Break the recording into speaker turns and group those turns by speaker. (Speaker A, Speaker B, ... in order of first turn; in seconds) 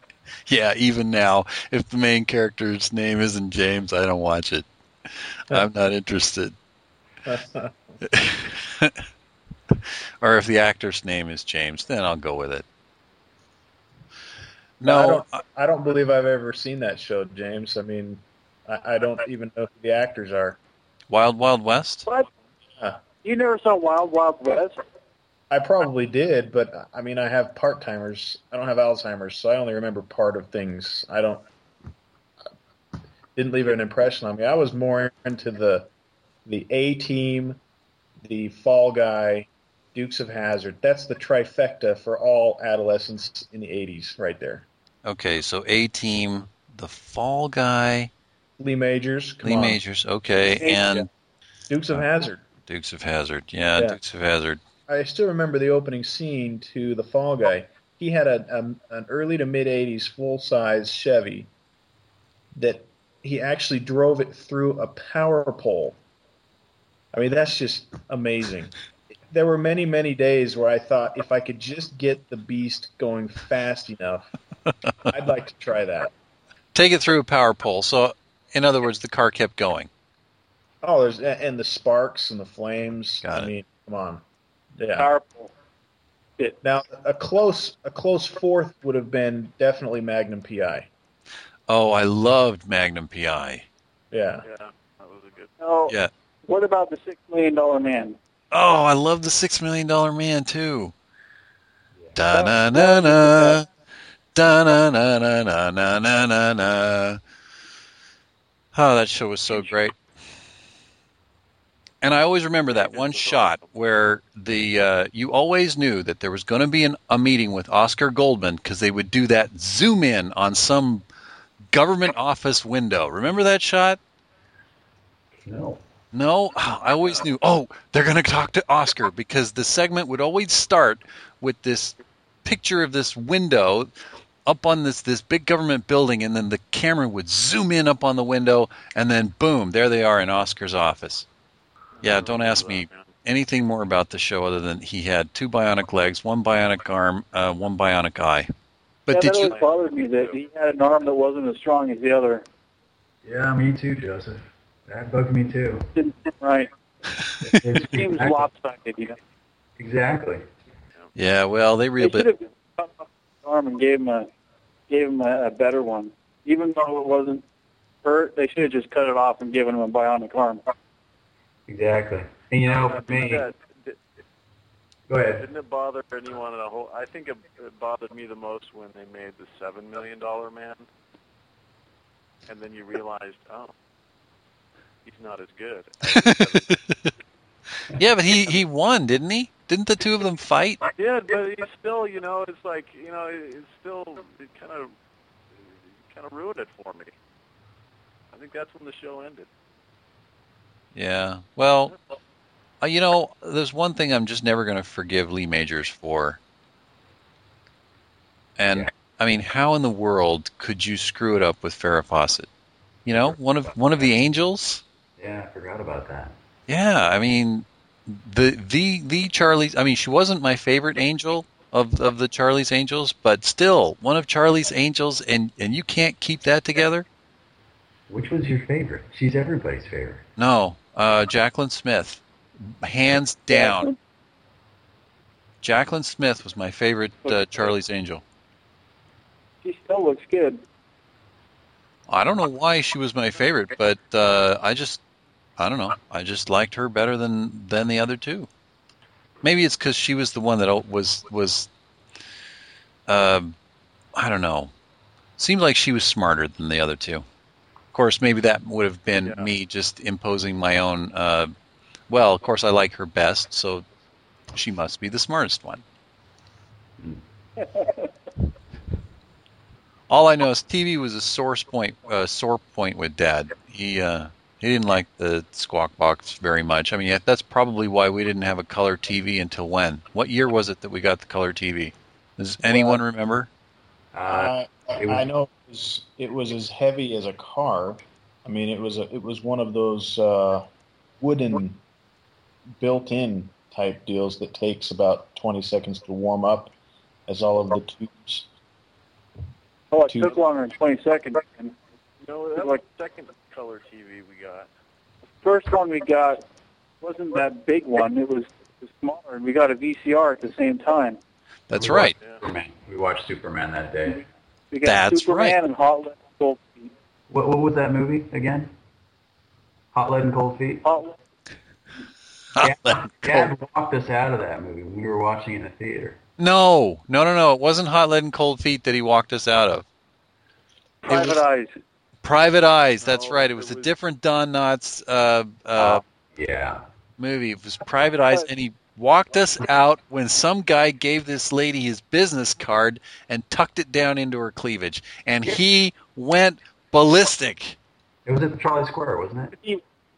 Speaker A: 0.5-6.5, 8.0-9.0, 9.7-12.7, 14.8-15.4, 21.1-22.1, 45.0-48.1, 49.4-51.1, 52.7-54.6, 76.7-79.9, 83.2-83.5, 91.7-93.7, 98.5-100.9, 102.2-103.7, 104.3-107.2, 108.7-110.0, 112.0-121.1, 121.7-124.0, 126.1-133.9, 134.4-141.3, 142.0-148.5, 149.1-149.5, 161.2-162.3, 186.1-187.1, 187.9-190.8, 200.9-202.0, 202.8-206.4, 208.6-212.5, 213.1-214.8, 216.7-227.1, 230.4-233.9, 235.6-238.2, 242.1-245.0, 245.6-248.5, 249.4-251.7, 253.1-253.6, 254.2-254.7, 255.4-257.2, 257.9-261.5, 262.1-263.9, 264.5-265.8, 270.1-283.5, 311.7-312.1, 314.8-315.6, 322.6-323.0, 326.4-329.9, 331.1-331.4, 332.2-336.0, 337.2-347.8
Speaker B: 7.2-7.7, 14.8-20.6, 25.5-31.5, 33.4-35.9, 36.5-37.6, 38.2-44.7, 48.6-49.8, 51.7-52.4, 54.9-61.5, 62.5-66.0, 67.1-68.7, 69.3-74.3, 75.1-76.1, 80.8-84.2, 84.8-85.1, 86.6-90.9, 94.1-94.5, 282.6-283.0, 284.3-290.7, 291.2-291.8, 292.8-296.7, 297.3-298.5, 300.1-300.4
Speaker C: 23.2-24.8, 50.5-51.0, 85.0-85.5, 95.6-98.2, 102.3-103.6, 149.1-152.5, 155.9-156.7, 157.7-159.2, 162.0-164.3, 164.9-167.4, 168.0-170.6, 233.5-234.0, 237.3-237.7, 239.6-240.6, 299.9-301.8, 305.4-306.4, 307.0-311.2, 314.7-316.9, 320.8-321.2, 331.0-331.7
Speaker D: 94.4-95.5, 112.7-113.7, 142.0-143.1, 149.4-149.7, 172.8-174.0, 175.4-180.9, 182.5-183.7, 185.1-186.7, 190.9-194.9, 195.6-197.1, 198.3-199.5, 259.2-259.5, 302.2-304.7, 333.0-333.9
Speaker E: 125.5-125.8, 153.2-155.9, 157.4-158.5, 159.8-160.5, 171.7-173.5, 175.1-175.5, 213.1-213.7, 215.2-216.4, 228.1-230.2, 284.1-285.2, 311.7-314.3, 317.3-318.7, 319.9-320.9, 322.6-326.2, 335.8-336.8, 348.3-349.6